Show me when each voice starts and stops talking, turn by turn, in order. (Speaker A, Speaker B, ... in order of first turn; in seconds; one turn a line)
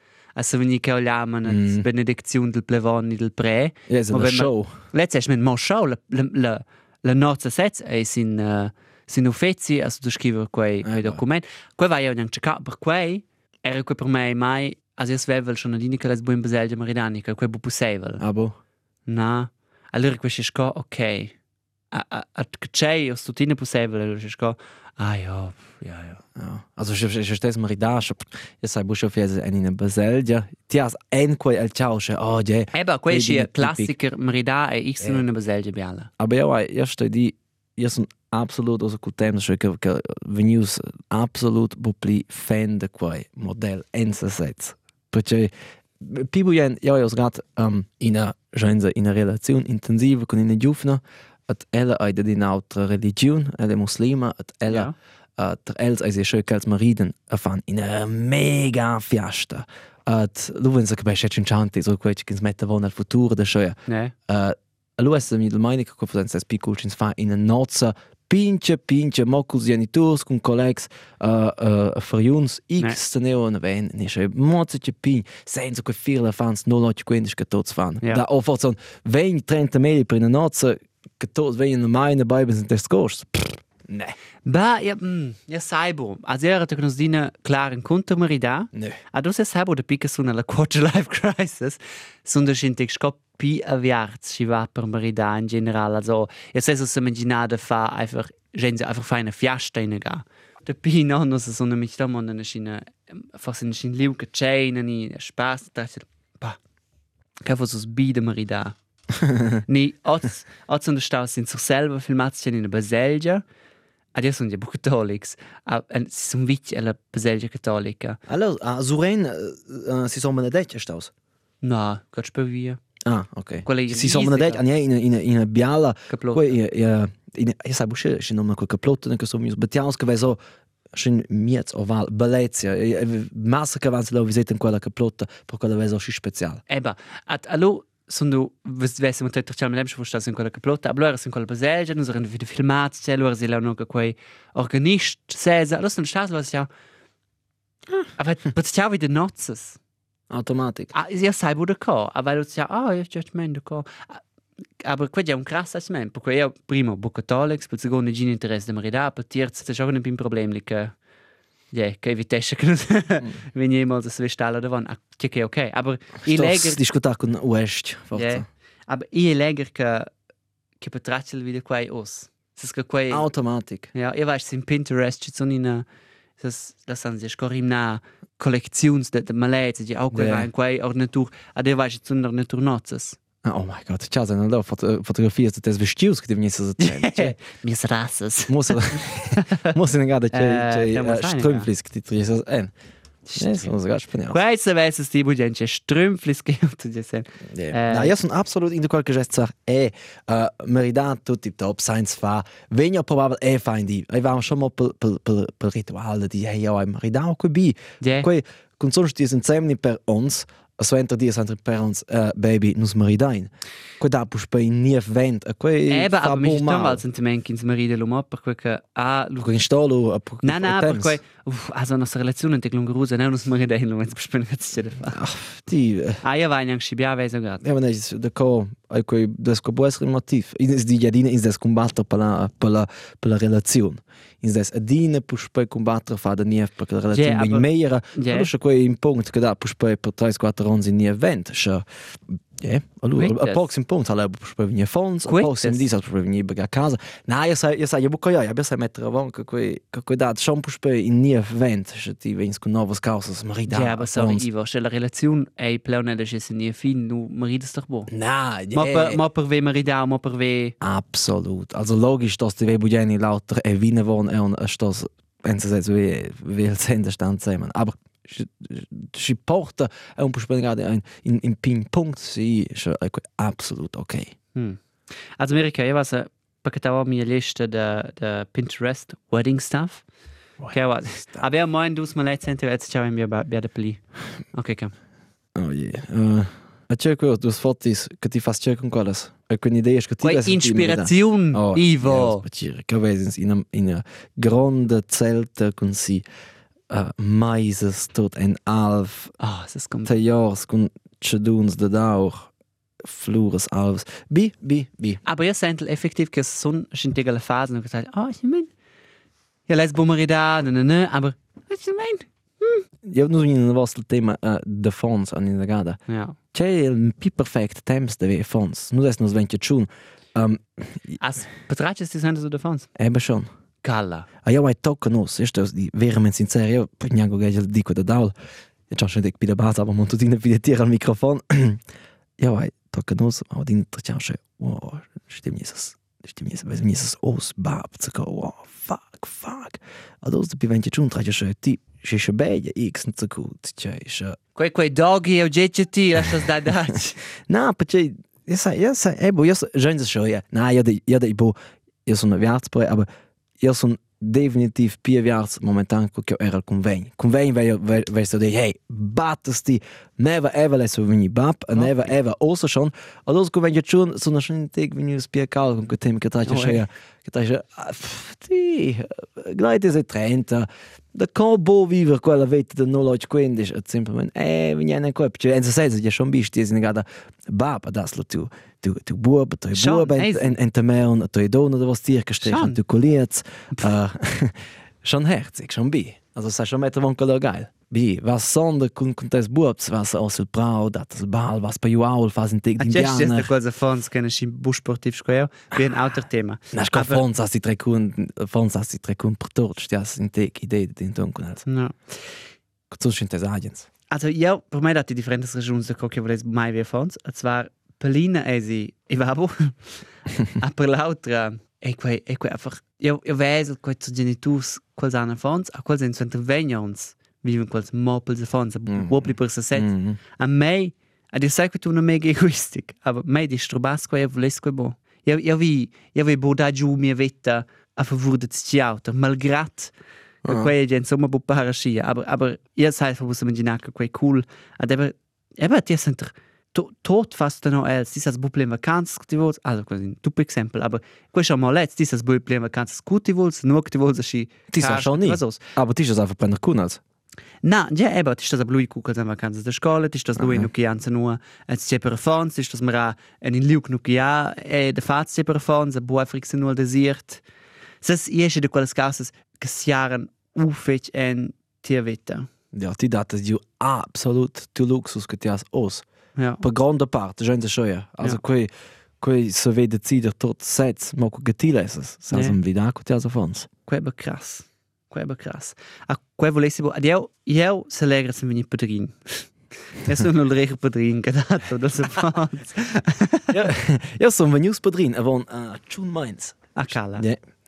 Speaker A: 0.4-18.2
Speaker B: 1.5-1.8
Speaker B: 3.9-4.8
Speaker B: 10.8-11.2
Speaker B: 18.2-18.6
Speaker A: 19.1-21.3
Speaker A: 21.9-26.2
Speaker B: 26.4-33.9
Speaker A: 32.7-36.1
Speaker B: 36.2-63.8
Speaker A: 54.7-54.9
Speaker A: 63.9-64.1
Speaker B: 64.3-84.2
Speaker A: 84.5-106.6
Speaker B: 88.7-89.0
Speaker A: 107.4-108.8
Speaker B: 109.2-109.6
Speaker A: 109.7-113.4
Speaker A: 114.2-118.2
Speaker B: 118.3-121.1
Speaker A: 121.6-122.8
Speaker B: 123.0-130.4
Speaker A: 123.7-124.6
Speaker A: 126.1-126.5
Speaker B: 130.9-136.6
Speaker A: 136.7-146.7
Speaker A: 148.2-149.8
Speaker B: 150.3-150.9
Speaker A: 150.9-154.2
Speaker A: 154.8-160.9
Speaker A: 161.7-166.8
Speaker B: 166.2-168.4
Speaker A: 168.2-170.1
Speaker A: 170.8-173.3
Speaker B: 173.1-173.9
Speaker A: 173.9-175.8
Speaker A: 176.4-183.2
Speaker B: 180.1-180.5
Speaker B: 183.4-187.4
Speaker A: 186.8-189.7
Speaker B: 188.5-192.7
Speaker A: 190.3-191.7
Speaker A: 193.2-193.7
Speaker B: 193.4-194.4
Speaker A: 194.3-198.2
Speaker B: 197.5-217.0
Speaker A: 208.0-208.3
Speaker A: 215.9-219.5
Speaker B: 219.4-221.2
Speaker A: 220.4-225.2
Speaker B: 225.1-226.2
Speaker A: 226.2-227.6
Speaker B: 227.6-254.5
Speaker A: 237.1-238.5
Speaker A: 243.2-243.7
Speaker A: 245.3-245.9
Speaker A: 253.7-258.1
Speaker B: 258.1-259.2
Speaker A: 258.7-260.8
Speaker B: 260.8-274.4
Speaker A: 274.6-280.0
Speaker B: 280.6-281.4
Speaker A: 280.7-284.9
Speaker B: 285.6-296.2
Speaker A: 290.2-292.4
Speaker B: 296.9-299.3
Speaker A: 299.4-300.2
Speaker B: 300.1-302.5
Speaker B: 303.0-305.2
Speaker A: 305.2-308.7
Speaker A: 309.7-312.9
Speaker B: 313.0-316.0
Speaker A: 316.1-316.4
Speaker B: 316.5-321.2
Speaker A: 321.2-322.9
Speaker B: 323.0-323.5
Speaker A: 323.8-324.3
Speaker B: 324.4-328.3
Speaker B: 328.9-331.8
Speaker B: 332.4-344.4
Speaker A: 344.6-347.2
Speaker B: 347.5-353.1
Speaker B: 353.6-393.5
Speaker A: 361.7-362.1
Speaker A: 366.5-366.8
Speaker A: 379.7-380.5
Speaker A: 382.4-382.8
Speaker A: 392.8-397.2
Speaker B: 396.7-401.6
Speaker A: 401.7-402.4
Speaker B: 402.9-403.9
Speaker A: 404.1-429.9
Speaker B: 418.9-420.2
Speaker A: 430.4-445.6
Speaker B: 430.5-430.7
Speaker B: 444.7-447.0
Speaker A: 447.6-457.4
Speaker B: 450.4-450.7
Speaker A: 458.0-462.5
Speaker B: 462.7-466.0
Speaker A: 466.4-466.6
Speaker B: 466.6-473.7
Speaker A: 472.3-472.6
Speaker A: 473.9-483.6
Speaker B: 483.5-487.4
Speaker A: 486.8-487.2